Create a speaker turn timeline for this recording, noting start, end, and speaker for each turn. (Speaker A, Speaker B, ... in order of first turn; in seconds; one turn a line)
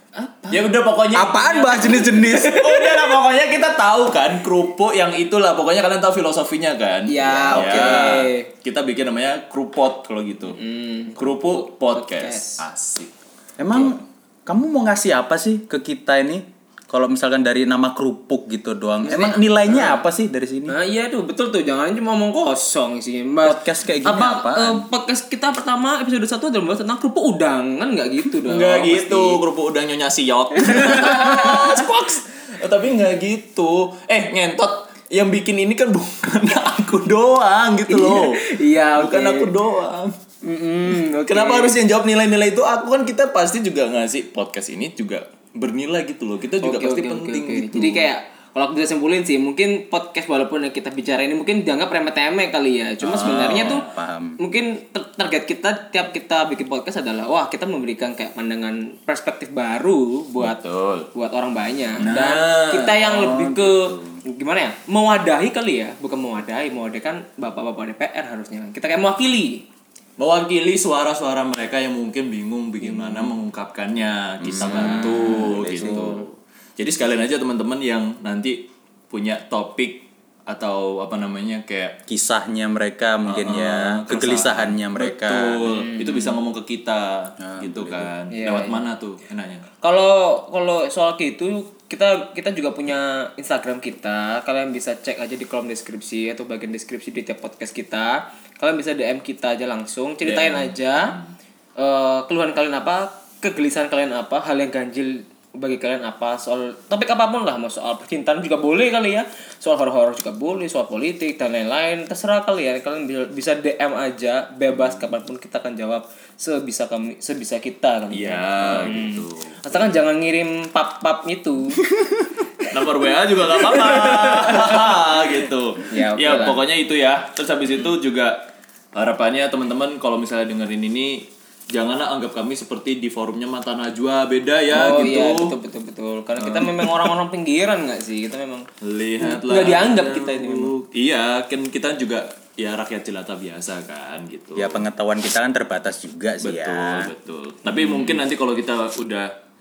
Speaker A: 0.1-3.1
Speaker B: 0.5-1.5
Speaker C: 1.1-2.6
Speaker B: 2.3-10.6
Speaker A: 7.1-8.5
Speaker C: 7.3-8.2
Speaker A: 10.4-12.6
Speaker B: 11.2-13.1
Speaker C: 13.6-20.8
Speaker A: 19.1-20.0
Speaker A: 20.7-29.4
Speaker C: 23.4-24.9
Speaker B: 28.4-40.1
Speaker A: 30.6-31.9
Speaker A: 37.9-39.5
Speaker A: 40.4-41.8
Speaker B: 40.9-48.1
Speaker A: 46.6-60.6
Speaker B: 53.0-54.0
Speaker C: 53.9-54.4
Speaker B: 60.4-61.1
Speaker A: 61.1-69.7
Speaker B: 62.0-63.5
Speaker C: 63.2-64.2
Speaker B: 70.2-82.0
Speaker A: 72.8-73.3
Speaker C: 74.4-76.2
Speaker A: 74.6-76.2
Speaker C: 82.1-85.6
Speaker B: 83.3-89.7
Speaker A: 85.7-86.4
Speaker C: 87.4-88.1
Speaker A: 88.3-88.8
Speaker A: 89.8-101.2
Speaker B: 100.2-101.3
Speaker A: 101.8-121.8
Speaker B: 114.7-115.1
Speaker B: 118.1-119.9
Speaker C: 118.7-118.9
Speaker B: 122.7-128.4
Speaker A: 123.8-125.0
Speaker A: 125.9-126.6
Speaker B: 128.9-135.6
Speaker A: 134.7-138.7
Speaker B: 136.4-137.1
Speaker B: 138.8-144.9
Speaker A: 139.2-140.8
Speaker C: 144.6-147.1
Speaker B: 146.4-149.3
Speaker A: 147.7-148.2